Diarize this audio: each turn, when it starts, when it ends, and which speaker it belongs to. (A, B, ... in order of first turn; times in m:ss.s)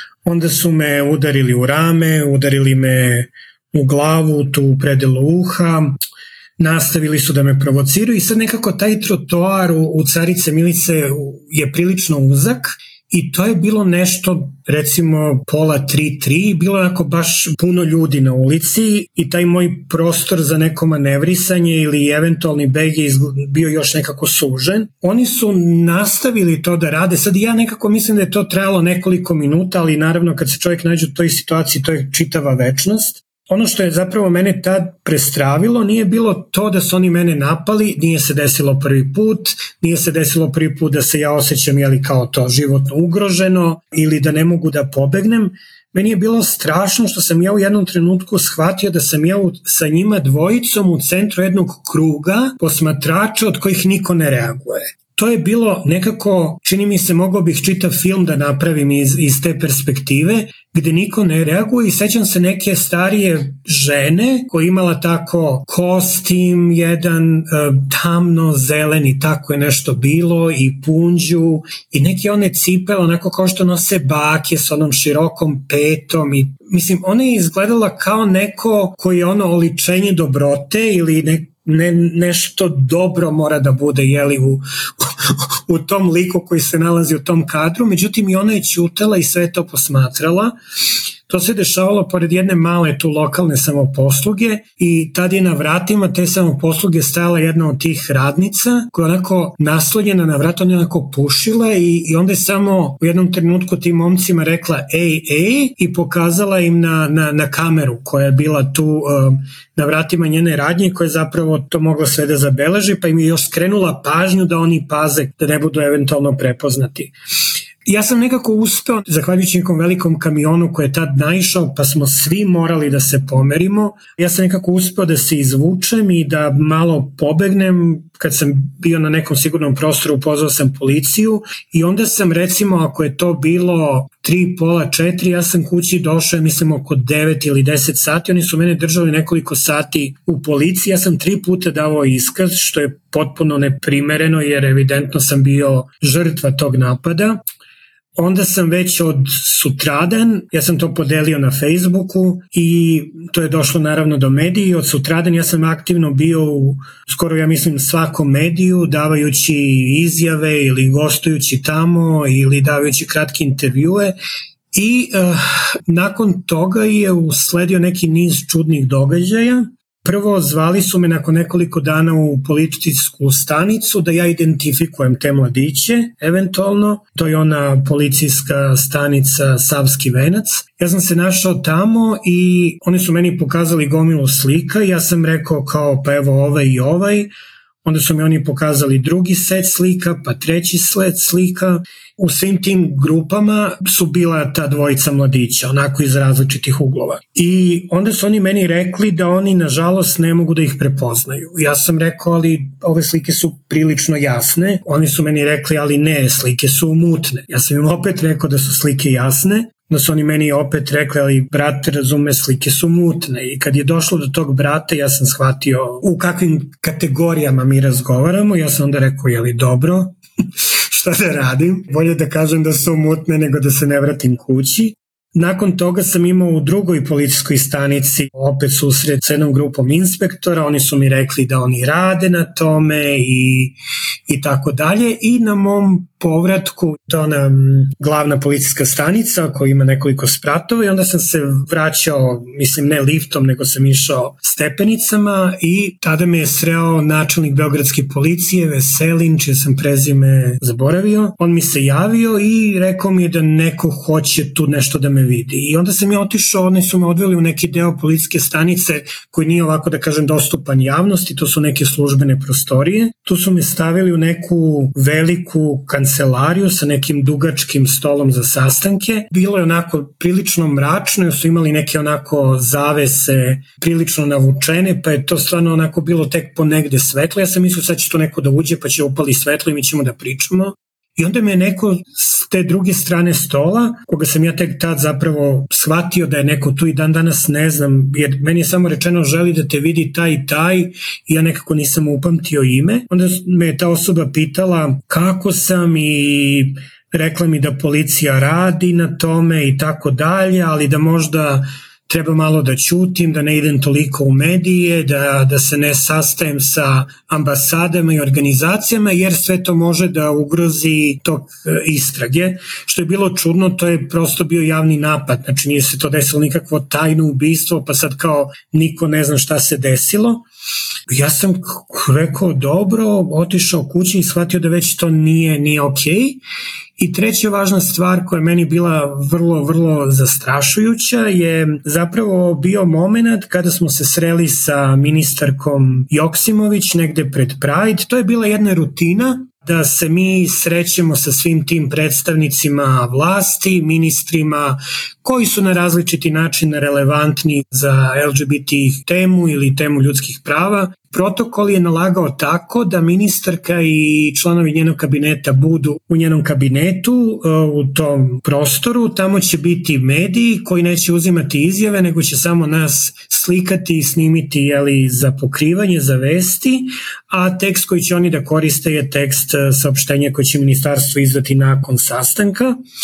0:00.2-0:06.0 A
0:06.6-1:30.6 A
1:31.3-1:57.1 A
1:57.9-2:27.4 A
2:28.2-2:44.1 A
2:44.7-3:07.3 A
3:07.8-3:40.1 A
3:40.9-3:53.8 A
3:54.3-5:20.4 A
5:21.1-5:26.4 A
5:27.0-6:12.8 A